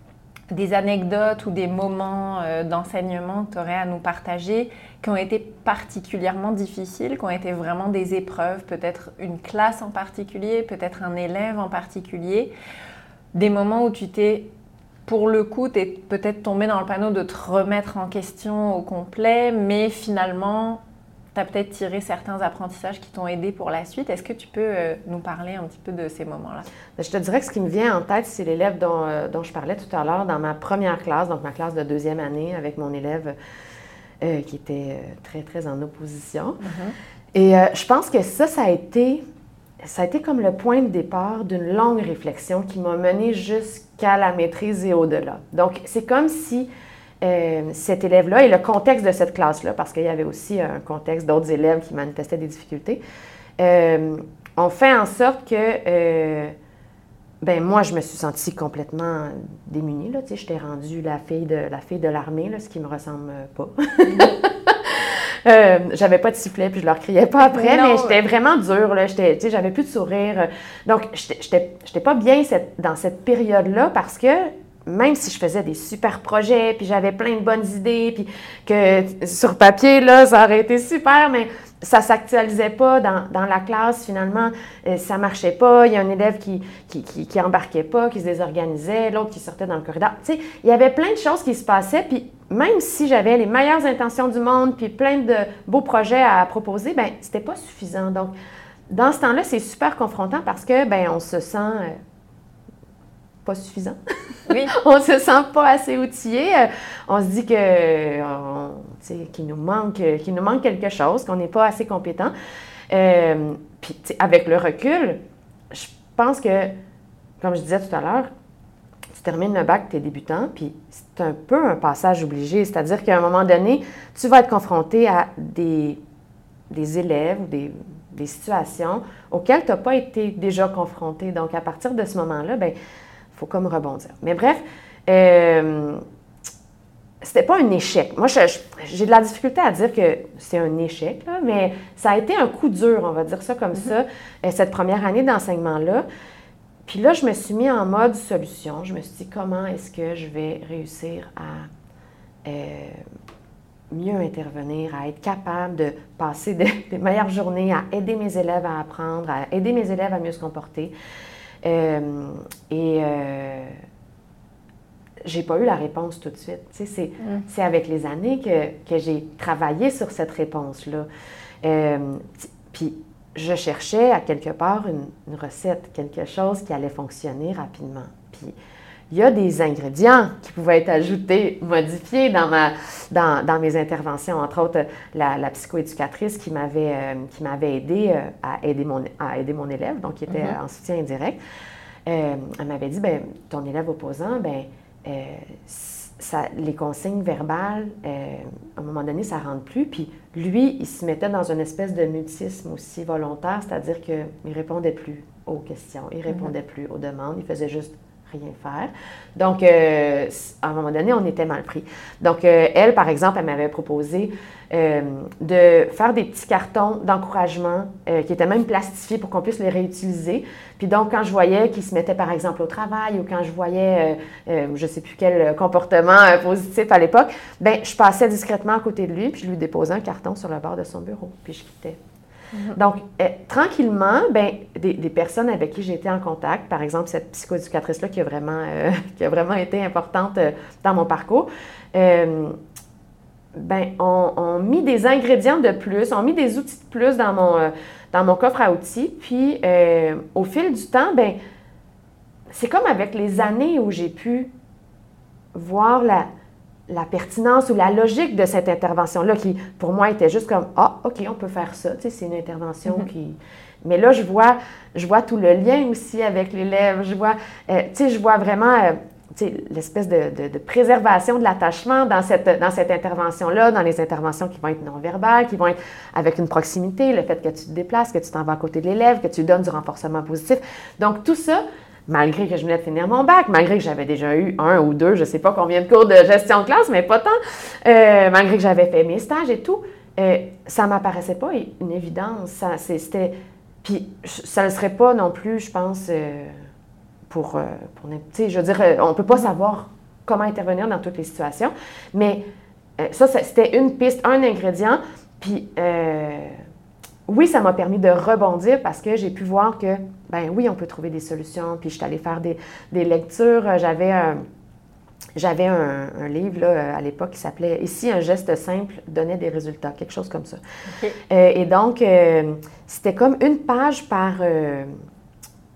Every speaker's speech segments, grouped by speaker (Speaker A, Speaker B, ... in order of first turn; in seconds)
Speaker A: 0.5-12.5, 13.3-14.5, 15.1-20.8, 21.4-26.7, 36.6-37.0, 67.5-68.2, 104.5-104.7, 167.2-167.5, 190.3-190.6, 232.5-232.8, 320.9-321.2
Speaker B: 27.0-33.4, 34.2-36.6, 37.3-39.2, 39.8-46.7, 47.2-53.0, 53.6-56.5, 57.4-98.3, 98.9-102.0, 103.5-104.0, 104.7-112.3, 112.9-115.2, 115.7-116.7, 117.4-118.3, 119.1-126.0, 126.7-132.7, 133.3-136.0, 137.2-146.0, 146.8-151.7, 152.4-153.0, 153.9-160.9, 161.6-163.8, 165.2-171.1, 171.6-178.6, 179.1-191.4, 192.1-232.0, 232.7-242.6, 243.5-251.4, 252.5-254.5, 255.5-256.3, 256.9-296.6, 297.3-302.4, 303.0-306.6, 307.3-314.4, 315.4-320.6, 321.3-324.9